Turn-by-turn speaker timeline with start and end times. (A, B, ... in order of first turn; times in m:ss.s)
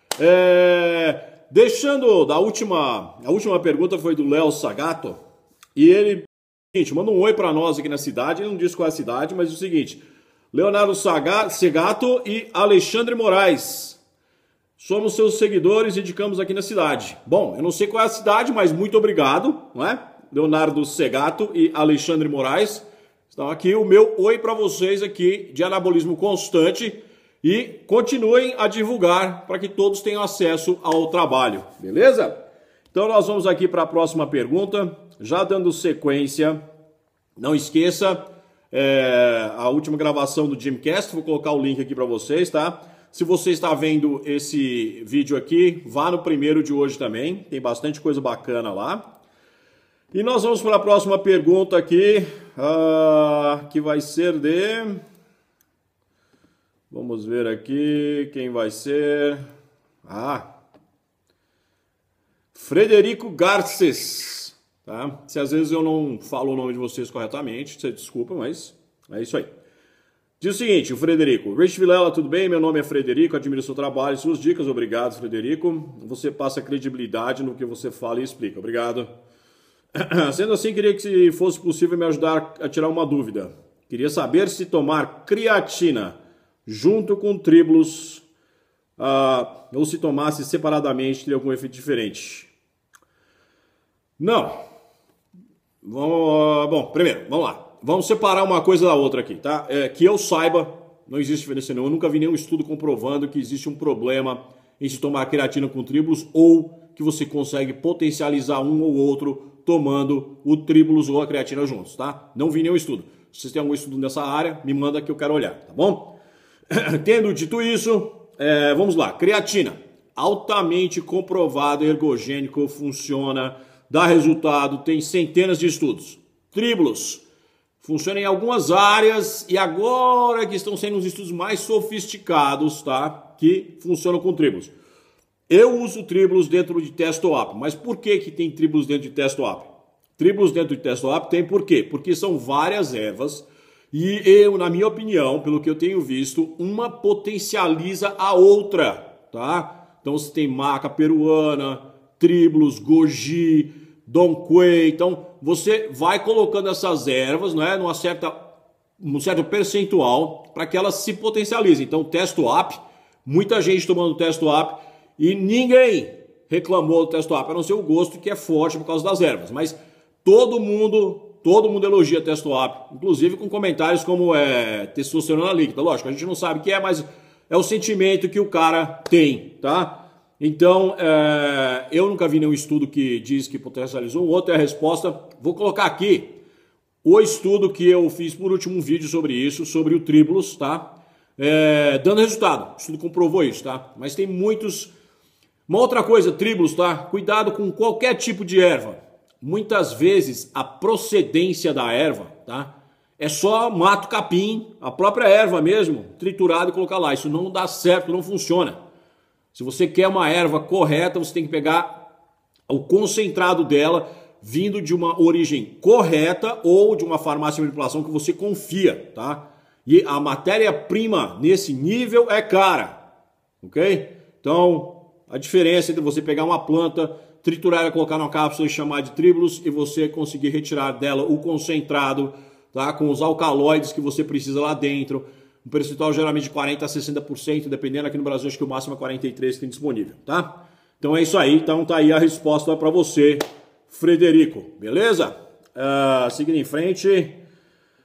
0:00.2-0:05.2 A
0:05.8-0:14.0 A
0:14.8-0:32.4 A
0:32.9-0:36.6 A
0:37.4-0:49.0 A
0:50.1-0:55.0 A
0:56.9-0:59.4 A
1:00.0-1:00.5 A
1:02.5-1:09.5 A
1:10.4-1:19.1 A
1:20.0-1:28.2 A
1:29.0-1:32.5 A
1:34.2-1:34.6 A
1:35.8-1:56.2 A
1:56.7-2:07.2 A
2:07.8-2:14.7 A
2:15.5-2:38.4 A
2:39.0-3:06.4 A
3:07.0-3:14.9 A
3:15.7-3:28.8 A
3:29.5-3:32.0 A
3:32.7-3:43.0 A
3:43.6-4:07.4 A